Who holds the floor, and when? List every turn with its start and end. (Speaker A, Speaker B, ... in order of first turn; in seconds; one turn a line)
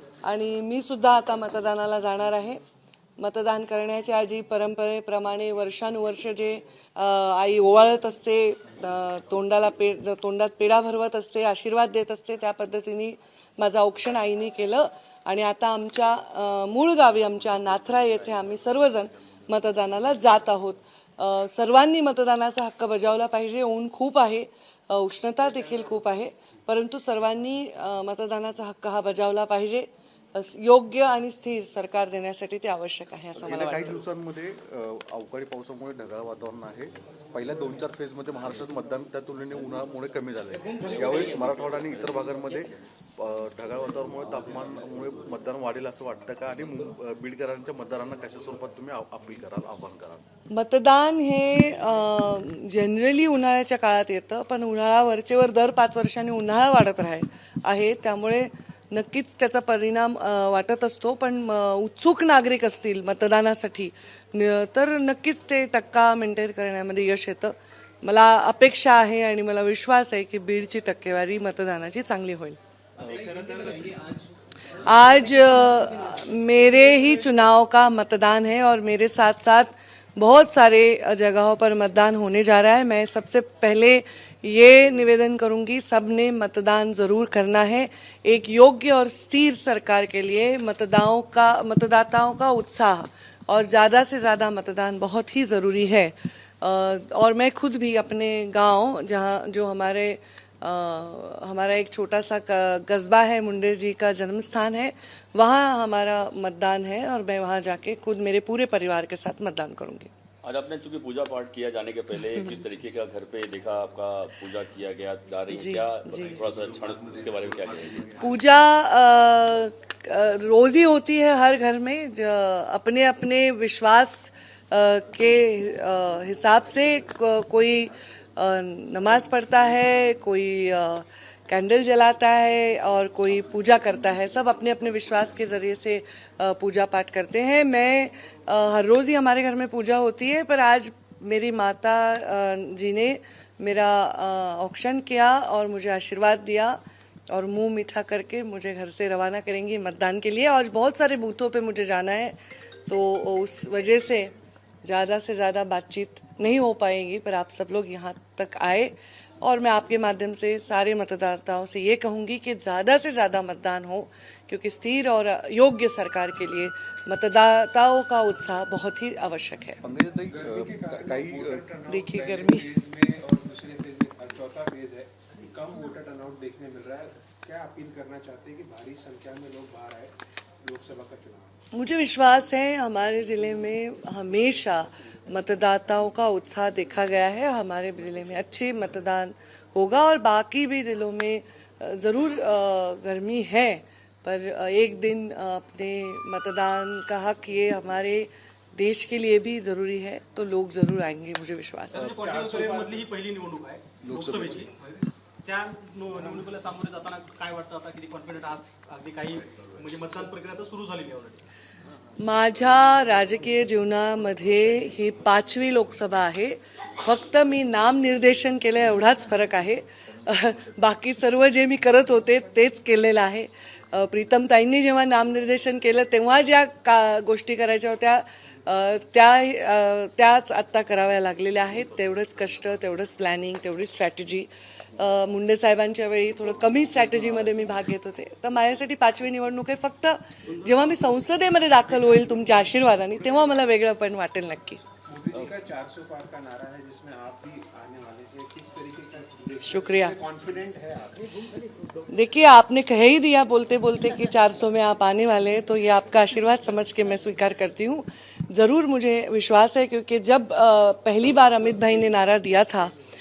Speaker A: 0.2-2.6
Speaker A: 3.2-34.0
Speaker B: 33.4-50.2
Speaker A: 50.5-72.6
Speaker C: 73.0-73.9
Speaker A: 74.8-110.1
Speaker C: 110.4-118.2
Speaker A: 115.5-116.4
Speaker A: 118.2-154.3
Speaker A: 154.8-169.8
Speaker B: 169.8-171.6
Speaker D: 170.3-181.6
Speaker A: 171.9-172.7
Speaker A: 181.7-202.1
Speaker E: 201.9-204.7
Speaker D: 202.0-203.1
Speaker B: 204.0-204.7
Speaker E: 205.4-211.4
Speaker A: 212.2-244.8
Speaker D: 245.1-251.3
Speaker A: 249.6-250.2
Speaker A: 252.1-262.9